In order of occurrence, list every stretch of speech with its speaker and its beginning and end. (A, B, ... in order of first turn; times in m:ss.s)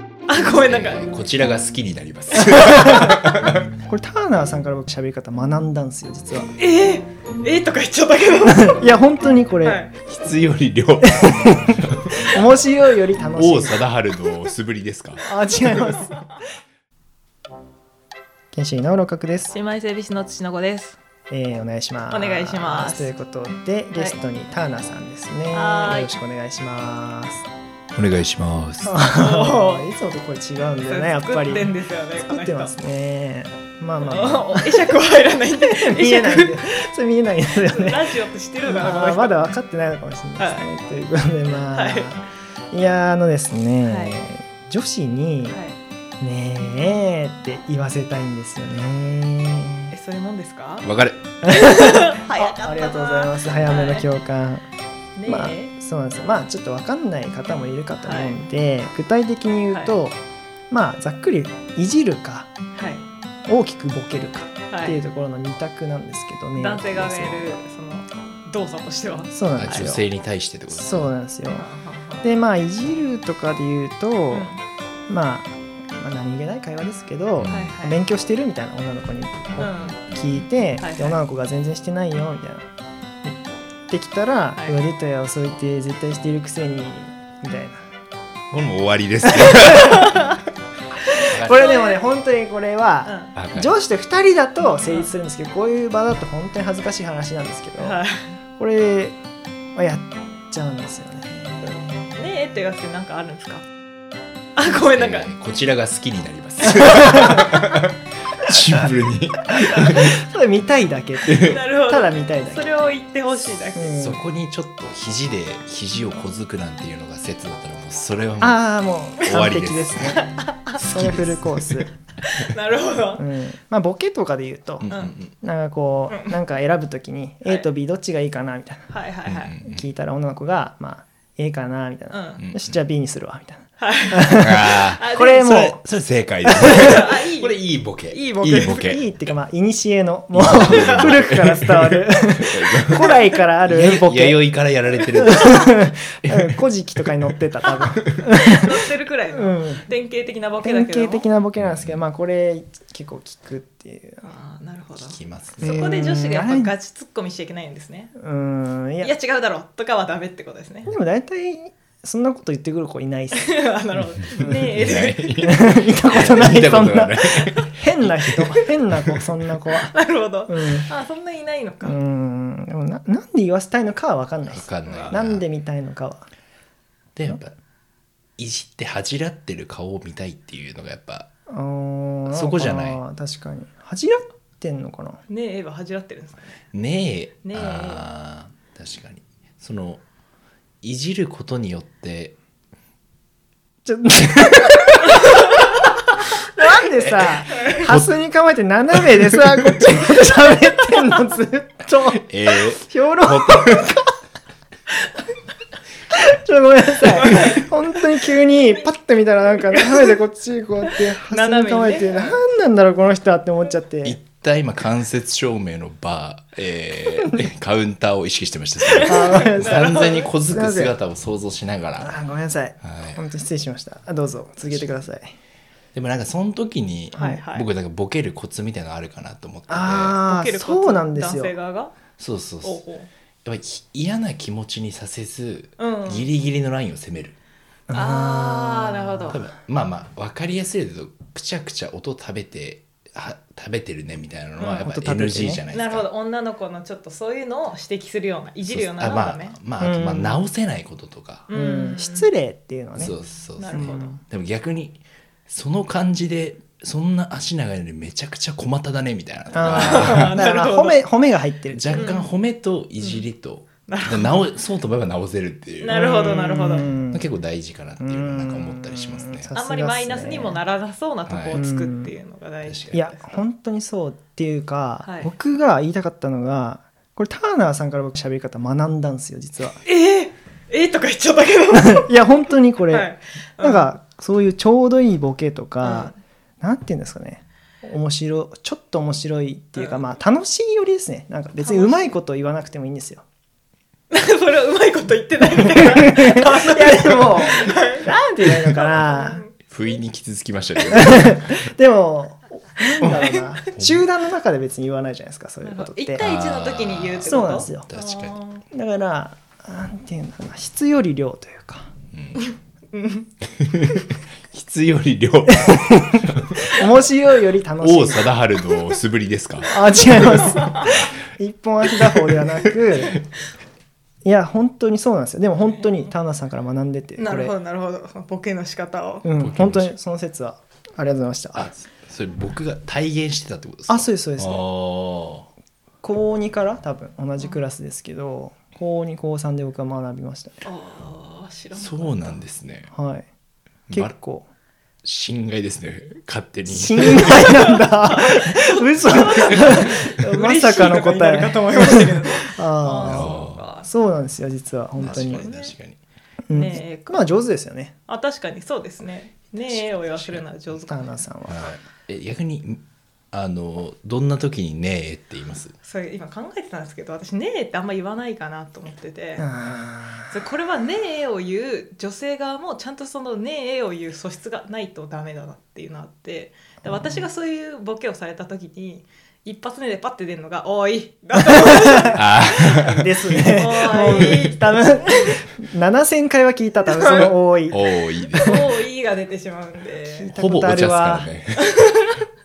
0:00.3-0:01.0 A
0:00.4-0:03.7 B
0:02.6-0:03.1 C
0:03.8-0:06.5 C
0:06.6-0:08.8 A
0:08.4-0:09.8 C
0:09.6-0:09.9 A
0:10.1-0:12.4 B
0:11.0-0:13.8 C
0:13.3-0:16.0 B
0:15.2-0:16.4 C
0:16.0-0:16.3 A
0:18.5-0:19.6 C
0:19.5-0:21.0 A
0:21.3-0:27.5 C
0:22.1-0:23.1 A
0:23.9-0:24.2 A
0:25.5-0:26.2 A
0:28.0-0:29.0 B
0:28.8-0:34.9 C
0:29.1-0:29.9 A
0:30.8-0:32.7 A
0:34.0-0:36.6 A
0:35.7-0:38.1 C
0:37.5-0:39.4 A
0:38.6-0:45.6 C
0:40.4-0:40.6 A
0:41.7-0:42.1 A
0:43.8-0:44.3 A
0:45.5-0:45.8 A
0:46.2-0:49.9 C
0:49.9-0:50.9 A
0:50.8-0:51.2 B
0:51.4-0:54.6 C
0:51.4-0:54.1 A
0:55.2-0:55.7 A
0:55.3-1:02.5 C
0:58.0-0:58.4 A
0:59.7-1:00.0 A
1:02.8-1:03.0 A
1:03.5-1:07.6 C
1:04.7-1:05.0 A
1:06.6-1:09.8 A
1:09.3-1:10.0 C
1:09.6-1:11.1 B
1:10.7-1:11.7 C
1:11.6-1:12.3 A
1:12.2-1:14.5 C
1:14.3-1:14.6 A
1:15.1-1:22.7 C
1:17.4-1:17.8 B
1:17.5-1:18.0 A
1:19.6-1:20.0 A
1:20.8-1:21.2 A
1:23.2-1:27.8 C
1:28.5-1:30.2 B
1:29.2-1:30.1 C
1:30.0-1:30.3 A
1:31.1-1:32.1 A
1:31.3-1:31.8 B
1:31.4-1:38.0 C
1:33.0-1:33.4 A
1:33.4-1:33.7 B
1:37.8-1:38.2 A
1:38.6-1:39.2 C
1:39.8-1:42.0 C
1:41.6-1:43.7 A
1:44.6-1:45.3 A
1:44.9-1:50.2 B
1:49.6-1:52.7 C
1:51.3-1:51.6 B
1:51.4-1:54.0 A
1:53.7-1:54.2 C
1:53.9-1:58.6 B
1:58.4-2:00.2 C
1:59.2-2:00.2 B
2:00.3-2:00.7 A
2:00.8-2:01.9 B
2:00.8-2:01.9 C
2:02.2-2:03.3 A
2:03.2-2:04.9 C
2:04.8-2:05.3 B
2:04.9-2:05.1 A
2:05.4-2:08.9 C
2:08.9-2:09.5 A
2:09.3-2:09.8 B
2:09.6-2:15.8 C
2:12.1-2:12.4 A
2:12.4-2:12.8 B
2:13.8-2:14.4 A
2:14.3-2:19.0 B
2:15.0-2:15.6 A
2:16.4-2:17.0 C
2:16.6-2:19.0 A
2:18.8-2:24.4 C
2:20.3-2:26.6 B
2:25.0-2:28.8 C
2:28.5-2:31.3 A
2:29.3-2:29.9 C
2:30.6-2:34.3 C
2:31.6-2:32.0 B
2:34.2-2:38.1 A
2:35.0-2:35.9 B
2:35.6-2:36.7 C
2:38.2-2:39.1 C
2:39.0-2:40.9 A
2:40.9-2:43.7 C
2:43.3-2:45.4 A
2:44.4-2:50.9 C
2:44.5-2:49.3 B
2:49.9-2:52.0 A
2:51.8-2:56.3 C
2:54.5-2:55.4 B
2:54.9-2:55.2 A
2:57.2-2:57.5 B
2:58.4-3:01.3 B
3:01.5-3:05.2 C
3:02.3-3:03.0 B
3:05.3-3:06.6 A
3:06.7-3:10.0 B
3:07.4-3:08.1 A
3:10.8-3:12.4 B
3:13.8-3:15.4 C
3:16.5-3:24.1 C
3:16.9-3:18.1 B
3:19.0-3:19.7 B
3:22.3-3:24.0 B
3:26.1-3:34.2 C
3:27.2-3:27.7 A
3:30.9-3:32.4 A
3:34.0-3:42.2 B
3:38.8-3:40.3 A
3:39.0-3:40.9 C
3:42.0-3:45.3 C
3:42.8-3:43.2 B
3:45.9-3:50.2 B
3:47.1-3:47.4 C
3:47.2-3:47.7 A
3:49.7-3:51.5 C
3:50.2-3:52.0 A
3:52.2-3:52.8 B
3:52.6-3:53.1 A
3:53.4-3:57.4 B
3:55.8-3:56.3 A
3:57.9-3:59.2 C
3:57.9-3:59.4 A
3:59.3-4:06.1 B
4:04.6-4:04.9 A
4:04.8-4:05.6 C
4:05.7-4:09.6 A
4:08.7-4:11.5 B
4:09.8-4:10.4 C
4:11.5-4:12.3 A
4:11.5-4:13.2 C
4:13.0-4:20.4 B
4:13.6-4:14.2 A
4:13.7-4:14.2 C
4:19.5-4:22.2 C
4:19.6-4:21.0 A
4:21.7-4:26.0 B
4:21.9-4:22.3 A
4:23.9-4:24.4 A
4:25.8-4:27.0 A
4:25.9-4:27.3 C
4:27.1-4:29.5 B
4:28.0-4:30.6 C
4:29.6-4:33.4 A
4:31.3-4:31.6 B
4:31.5-4:32.1 C
4:32.6-4:33.0 B
4:32.9-4:39.8 C
4:35.0-4:35.3 A
4:39.8-4:42.2 A
4:41.7-4:53.2 C
4:42.9-4:43.9 A
4:45.8-4:46.1 A
4:51.6-4:52.2 A
4:54.1-4:59.6 A
4:55.7-4:59.4 C
4:59.7-5:01.6 B
5:00.9-5:06.2 C
5:02.8-5:03.5 A
5:03.0-5:04.0 B
5:05.6-5:08.6 A
5:06.2-5:08.4 B
5:07.2-5:07.9 C
5:08.7-5:11.9 C
5:12.1-5:12.4 B
5:12.4-5:13.3 A
5:13.6-5:16.8 B
5:15.6-5:18.3 C
5:17.8-5:19.8 B
5:19.7-5:23.2 C
5:20.2-5:21.1 A
5:22.0-5:23.2 B
5:24.2-5:27.5 C
5:25.7-5:26.1 A
5:27.2-5:29.3 A
5:29.2-5:31.7 C
5:29.4-5:29.9 B
5:31.6-5:35.5 B
5:33.9-5:34.6 C
5:36.0-5:40.6 C
5:40.6-5:42.4 A
5:41.7-5:42.9 B
5:42.9-5:43.3 C
5:43.9-5:44.5 C
5:45.0-5:47.7 B
5:46.7-5:55.5 C
5:47.3-5:53.9 A
5:52.9-5:53.6 B
5:55.0-5:56.0 B
5:55.1-5:55.8 A
5:56.5-5:57.9 C
5:56.5-5:57.4 A
5:58.1-6:01.2 A
5:59.7-6:00.4 B
6:00.8-6:01.6 C
6:01.5-6:02.8 B
6:03.3-6:05.7 B
6:05.8-6:09.5 A
6:09.4-6:10.4 C
6:10.3-6:22.8 A
6:16.8-6:17.3 C
6:22.2-6:24.5 B
6:22.7-6:27.8 C
6:23.4-6:25.3 A
6:26.9-6:27.3 A
6:27.7-6:28.6 B
6:28.3-6:28.7 C
6:28.4-6:30.3 A
6:30.1-6:31.3 C
6:30.3-6:31.6 B
6:31.6-6:32.2 A